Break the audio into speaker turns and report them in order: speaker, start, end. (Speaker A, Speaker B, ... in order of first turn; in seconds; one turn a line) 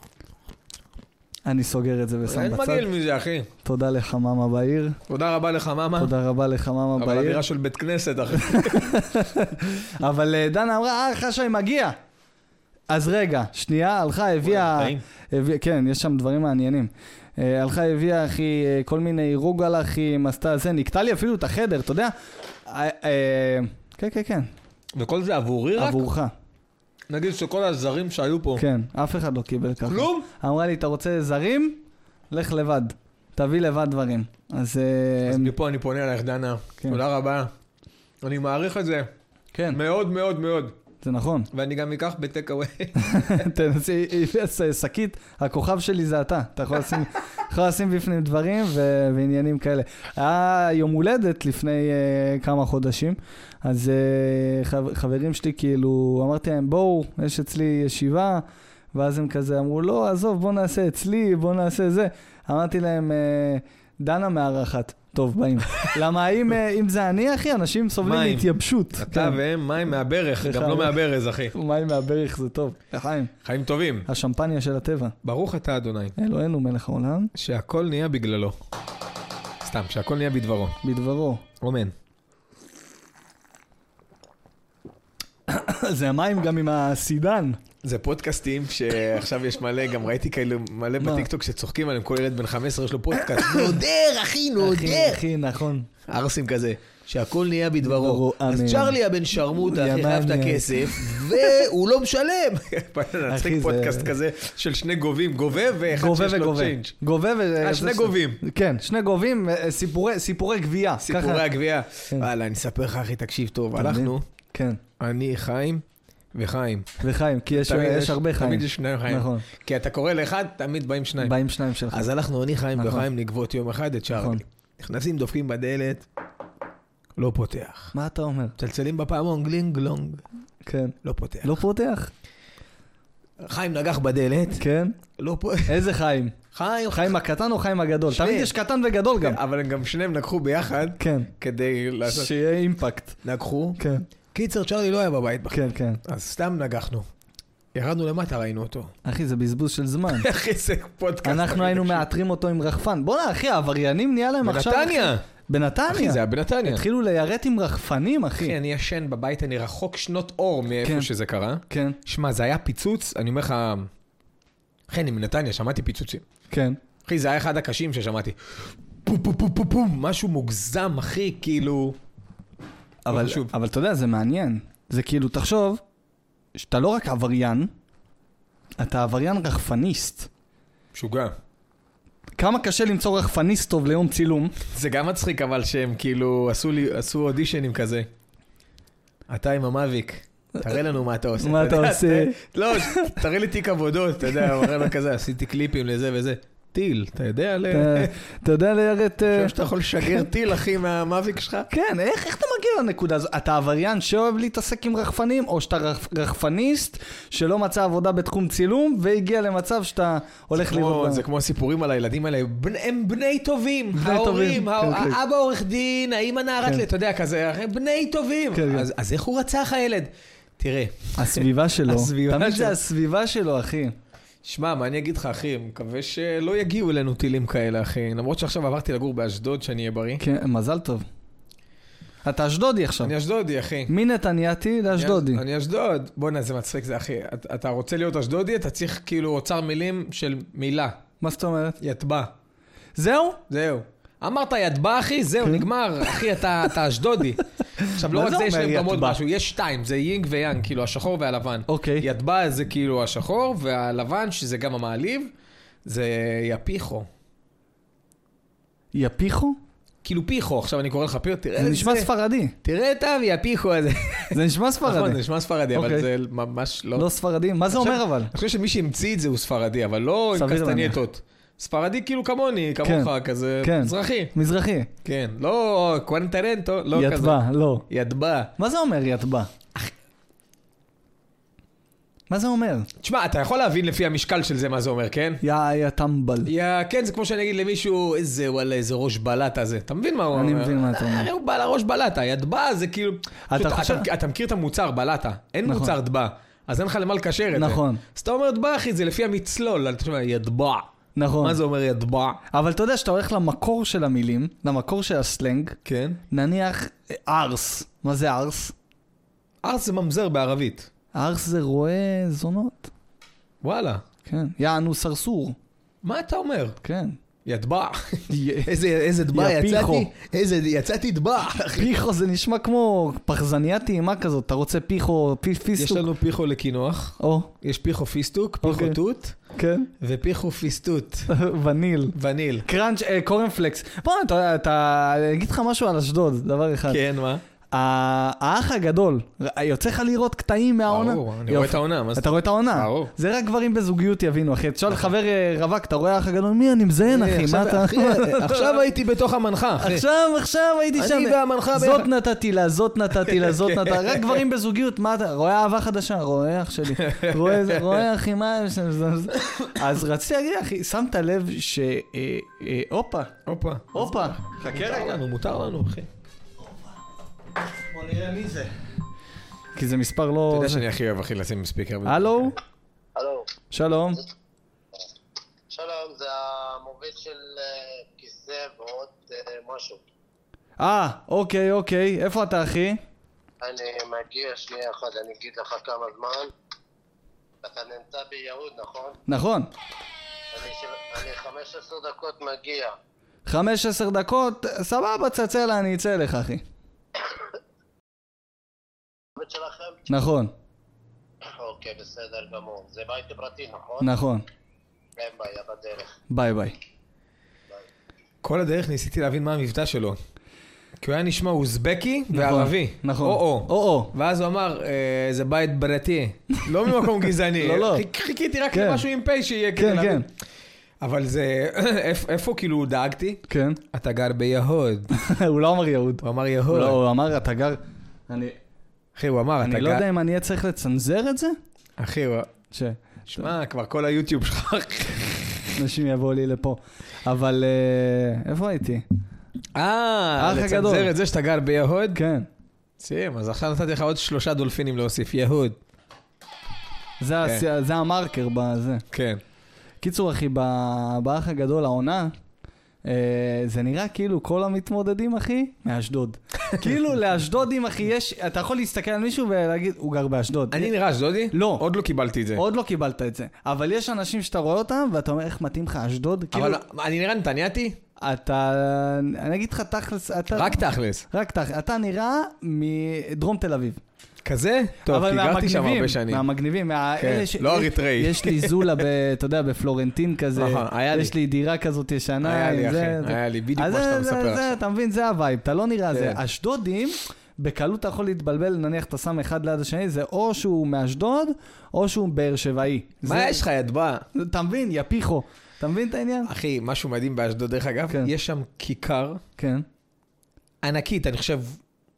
Speaker A: 1.4-2.9
Speaker B: 2.2-3.5
Speaker A: 3.6-5.0
Speaker B: 5.1-6.1
Speaker A: 6.0-7.4
Speaker B: 7.0-9.0
Speaker A: 8.4-11.9
Speaker A: 12.9-22.1
Speaker B: 14.4-15.0
Speaker A: 22.6-24.5
Speaker B: 24.9-26.0
Speaker A: 25.8-26.3
Speaker B: 27.1-28.6
Speaker A: 28.6-35.5
Speaker B: 29.9-30.3
Speaker B: 35.2-37.5
Speaker B: 38.2-39.1
Speaker A: 39.5-39.8
Speaker B: 39.7-40.8
Speaker A: 41.0-41.5
Speaker B: 41.5-43.2
Speaker A: 43.0-69.4
Speaker B: 68.0-71.5
Speaker A: 70.4-71.0
Speaker A: 71.5-73.3
Speaker B: 73.4-74.1
Speaker A: 74.1-75.2
Speaker B: 75.2-76.1
Speaker A: 76.2-77.3
Speaker B: 77.3-78.6
Speaker B: 79.6-80.8
Speaker A: 80.8-81.4
Speaker B: 81.6-81.9
Speaker A: 85.5-87.6
Speaker B: 87.8-95.2
Speaker A: 91.0-91.3
Speaker A: 94.6-95.9
Speaker B: 96.1-106.9
Speaker A: 97.8-99.0
Speaker A: 99.6-101.6
Speaker A: 103.3-104.1
Speaker A: 105.9-111.4
Speaker B: 107.6-108.4
Speaker B: 111.0-114.2
Speaker A: 113.7-114.8
Speaker B: 115.0-117.0
Speaker A: 117.0-119.5
Speaker B: 117.5-121.3
Speaker A: 121.2-122.1
Speaker B: 121.9-126.0
Speaker A: 122.7-123.1
Speaker A: 124.1-124.4
Speaker B: 127.2-127.9
Speaker A: 127.9-128.6
Speaker B: 128.6-130.2
Speaker A: 130.7-132.1
Speaker B: 131.0-131.6
Speaker B: 133.4-134.6
Speaker A: 134.6-135.0
Speaker B: 135.2-135.9
Speaker A: 135.7-136.3
Speaker B: 136.5-137.2
Speaker A: 136.9-139.4
Speaker B: 138.1-138.5
Speaker B: 139.2-142.3
Speaker A: 141.0-141.3
Speaker A: 142.0-143.2
Speaker B: 143.2-143.8
Speaker A: 143.8-144.1
Speaker B: 144.3-147.1
Speaker A: 145.5-146.0
Speaker B: 147.7-148.9
Speaker A: 149.0-150.3
Speaker B: 150.1-152.1
Speaker A: 151.2-158.6
Speaker B: 154.4-155.2
Speaker B: 155.9-156.8
Speaker B: 158.4-163.9
Speaker A: 160.8-161.1
Speaker A: 161.7-162.0
Speaker B: 164.9-166.2
Speaker A: 166.5-166.8
Speaker B: 167.0-172.0
Speaker A: 173.1-175.8
Speaker B: 173.1-173.5
Speaker A: 176.6-177.7
Speaker A: 178.8-180.3
Speaker B: 180.9-181.3
Speaker A: 182.4-184.6
Speaker B: 184.7-188.1
Speaker B: 189.3-198.1
Speaker A: 191.4-193.2
Speaker A: 194.3-194.9
Speaker A: 197.7-200.3
Speaker B: 199.2-201.7
Speaker A: 201.7-211.2
Speaker B: 210.5-222.8
Speaker A: 213.9-215.2
Speaker A: 218.5-218.9
Speaker A: 221.2-223.9
Speaker B: 224.4-230.2
Speaker A: 230.2-231.0
Speaker A: 232.2-233.1
Speaker B: 233.0-233.9
Speaker A: 233.9-235.4
Speaker B: 234.9-241.0
Speaker A: 241.2-241.8
Speaker B: 241.8-242.3
Speaker A: 242.9-243.4
Speaker B: 243.5-255.3
Speaker A: 245.4-246.2
Speaker A: 247.8-249.2
Speaker A: 251.7-252.1
Speaker B: 255.8-257.1
Speaker A: 258.9-259.6
Speaker B: 260.0-262.1
Speaker A: 261.6-262.5
Speaker B: 262.6-267.1
Speaker A: 264.3-265.2
Speaker A: 265.7-266.1
Speaker A: 266.9-268.3
Speaker B: 267.7-274.3
Speaker A: 270.3-271.0
Speaker A: 272.8-274.9
Speaker B: 275.0-278.5
Speaker A: 276.9-277.8
Speaker A: 278.6-279.5
Speaker A: 282.3-282.9
Speaker B: 283.0-285.4
Speaker A: 285.4-286.5
Speaker B: 286.4-300.9
Speaker A: 290.3-291.3
Speaker A: 293.5-294.1
Speaker A: 295.6-295.9
Speaker A: 297.5-298.0
Speaker A: 301.1-301.6
Speaker B: 301.4-302.4
Speaker A: 302.5-305.8
Speaker B: 305.8-306.2
Speaker A: 306.3-308.7
Speaker B: 309.6-310.9
Speaker A: 311.1-312.9
Speaker B: 313.6-314.0
Speaker A: 314.2-315.6
Speaker B: 316.0-316.8
Speaker A: 316.8-317.1
Speaker B: 317.4-321.9
Speaker A: 318.3-318.7
Speaker A: 319.3-320.1
Speaker A: 321.8-326.1
Speaker B: 325.8-329.4
Speaker A: 327.2-327.5
Speaker A: 328.6-329.0
Speaker A: 329.5-329.9
Speaker B: 330.0-331.3
Speaker A: 331.3-337.0
Speaker B: 332.1-332.7
Speaker B: 336.9-337.4
Speaker A: 337.7-348.8
Speaker B: 340.9-343.1
Speaker B: 347.1-350.0
Speaker A: 349.8-363.3
Speaker B: 351.0-352.1
Speaker B: 353.2-354.4
Speaker B: 356.9-358.1
Speaker B: 363.4-366.1
Speaker A: 363.9-365.2
Speaker A: 367.7-368.7
Speaker A: 369.7-370.8
Speaker B: 370.5-372.5
Speaker A: 372.0-372.6
Speaker C: 373.1-373.5
Speaker A: 373.7-374.2
Speaker C: 375.7-380.0
Speaker A: 380.8-383.0
Speaker C: 383.6-386.5
Speaker C: 387.6-389.2
Speaker A: 389.3-389.7
Speaker C: 390.5-392.9
Speaker A: 393.4-396.6
Speaker C: 399.4-400.0
Speaker A: 400.1-400.5
Speaker C: 401.4-404.1
Speaker A: 404.0-404.4
Speaker C: 405.2-406.1
Speaker A: 406.3-406.8
Speaker B: 408.4-410.2
Speaker B: 411.0-420.3
Speaker A: 412.3-414.1
Speaker A: 417.6-418.0
Speaker A: 418.7-419.0
Speaker A: 419.8-420.2
Speaker B: 421.0-425.1
Speaker A: 423.5-423.8
Speaker A: 425.1-428.5
Speaker B: 426.2-427.0
Speaker B: 429.1-430.1
Speaker A: 429.6-431.6
Speaker B: 432.0-432.5
Speaker A: 432.7-433.5
Speaker B: 433.3-435.8
Speaker A: 435.8-439.0
Speaker B: 439.8-442.2
Speaker A: 440.4-441.1
Speaker A: 442.1-442.5
Speaker B: 443.0-445.8
Speaker A: 447.2-449.0
Speaker B: 449.1-449.4
Speaker A: 450.0-452.3
Speaker A: 453.1-460.9
Speaker B: 460.7-462.6
Speaker A: 461.5-461.8
Speaker A: 462.5-466.8
Speaker B: 466.5-468.0
Speaker A: 468.2-474.0
Speaker B: 470.5-471.2
Speaker B: 474.4-476.4
Speaker A: 475.1-493.6
Speaker B: 477.2-479.0
Speaker B: 480.6-481.3
Speaker B: 482.4-484.8
Speaker B: 486.1-486.4
Speaker B: 493.2-494.2
Speaker A: 494.3-496.5
Speaker B: 496.4-499.4
Speaker A: 499.6-499.9
Speaker B: 500.8-501.8